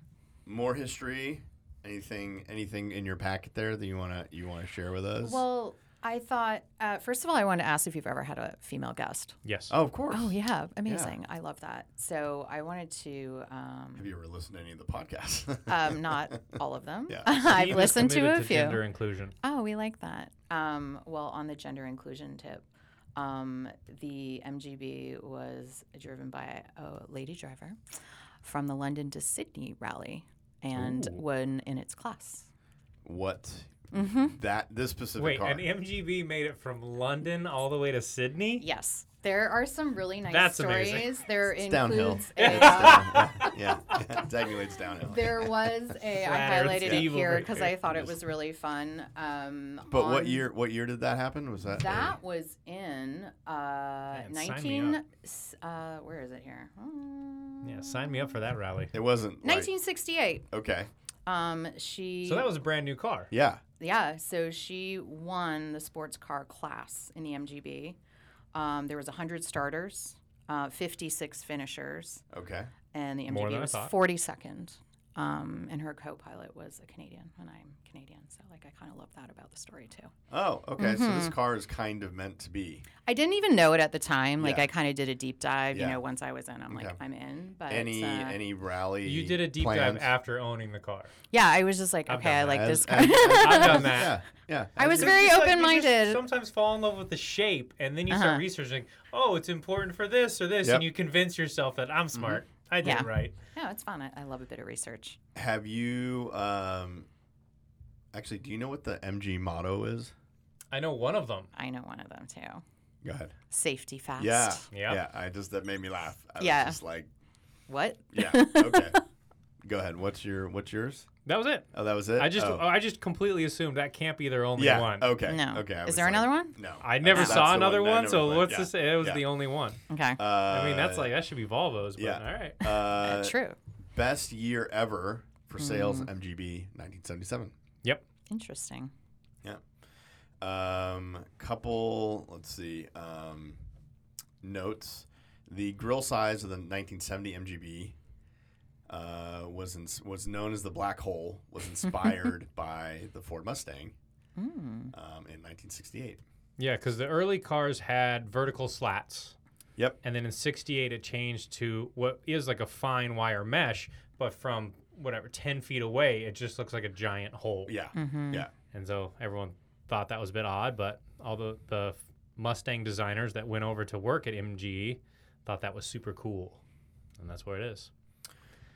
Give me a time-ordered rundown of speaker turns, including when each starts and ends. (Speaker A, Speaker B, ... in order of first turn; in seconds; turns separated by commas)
Speaker A: 0.5-5.4, Speaker B: 5.2-9.4, Speaker C: 9.4-9.7, Speaker A: 9.7-10.3, Speaker B: 10.1-14.1, Speaker A: 10.9-11.1, Speaker A: 14.0-16.4, Speaker B: 15.7-18.8, Speaker C: 17.3-19.3, Speaker B: 19.4-22.6, Speaker B: 23.1-27.8, Speaker B: 28.4-32.5, Speaker A: 33.0-35.6, Speaker B: 33.9-34.4, Speaker C: 35.2-38.6, Speaker B: 38.6-43.5, Speaker C: 40.3-41.1, Speaker A: 41.6-45.7, Speaker C: 42.4-44.2, Speaker B: 45.0-50.4, Speaker C: 46.2-47.9, Speaker A: 46.8-47.1, Speaker A: 49.9-52.2, Speaker B: 51.7-58.4, Speaker C: 54.1-55.0, Speaker C: 57.6-58.9, Speaker A: 58.9-59.7, Speaker B: 59.4-60.5, Speaker A: 60.5-60.9, Speaker B: 61.2-62.5, Speaker C: 62.2-63.3, Speaker A: 63.3-63.6, Speaker B: 63.8-68.0, Speaker B: 68.5-72.2, Speaker A: 72.3-72.7, Speaker B: 72.9-80.1, Speaker C: 73.3-73.9, Speaker A: 80.3-82.8, Speaker B: 80.8-81.3, Speaker B: 83.0-88.4, Speaker A: 84.4-84.7, Speaker A: 85.7-86.0, Speaker A: 86.7-87.0, Speaker A: 87.7-90.1, Speaker C: 89.0-91.1, Speaker B: 91.3-94.1, Speaker C: 92.1-94.2, Speaker A: 92.5-95.1, Speaker B: 94.8-96.2, Speaker C: 94.8-103.3, Speaker B: 98.1-98.4, Speaker A: 102.1-102.4, Speaker B: 102.8-105.2, Speaker A: 105.3-107.1, Speaker A: 108.1-110.1, Speaker C: 110.7-111.5, Speaker B: 111.5-112.6, Speaker A: 113.0-113.3, Speaker B: 113.5-114.7, Speaker A: 114.2-117.1, Speaker C: 114.7-115.0, Speaker B: 116.4-116.8, Speaker B: 117.7-119.0, Speaker A: 118.1-119.0, Speaker A: 119.6-121.1, Speaker C: 121.2-125.1, Speaker A: 121.7-122.6, Speaker A: 124.6-129.2, Speaker B: 125.2-126.6, Speaker C: 126.8-129.8, Speaker B: 127.1-127.4, Speaker B: 129.9-130.2, Speaker A: 130.2-131.1, Speaker C: 130.5-132.6, Speaker A: 132.0-133.3, Speaker B: 132.9-133.6, Speaker A: 133.9-137.5, Speaker B: 135.6-136.1, Speaker B: 138.3-138.9, Speaker A: 140.4-143.6, Speaker A: 144.4-147.9, Speaker A: 148.9-153.9, Speaker B: 154.4-154.9, Speaker A: 154.9-156.2, Speaker C: 156.6-159.3, Speaker C: 160.0-167.7, Speaker A: 167.7-168.5, Speaker B: 167.9-168.4, Speaker C: 168.7-176.6, Speaker C: 177.2-177.9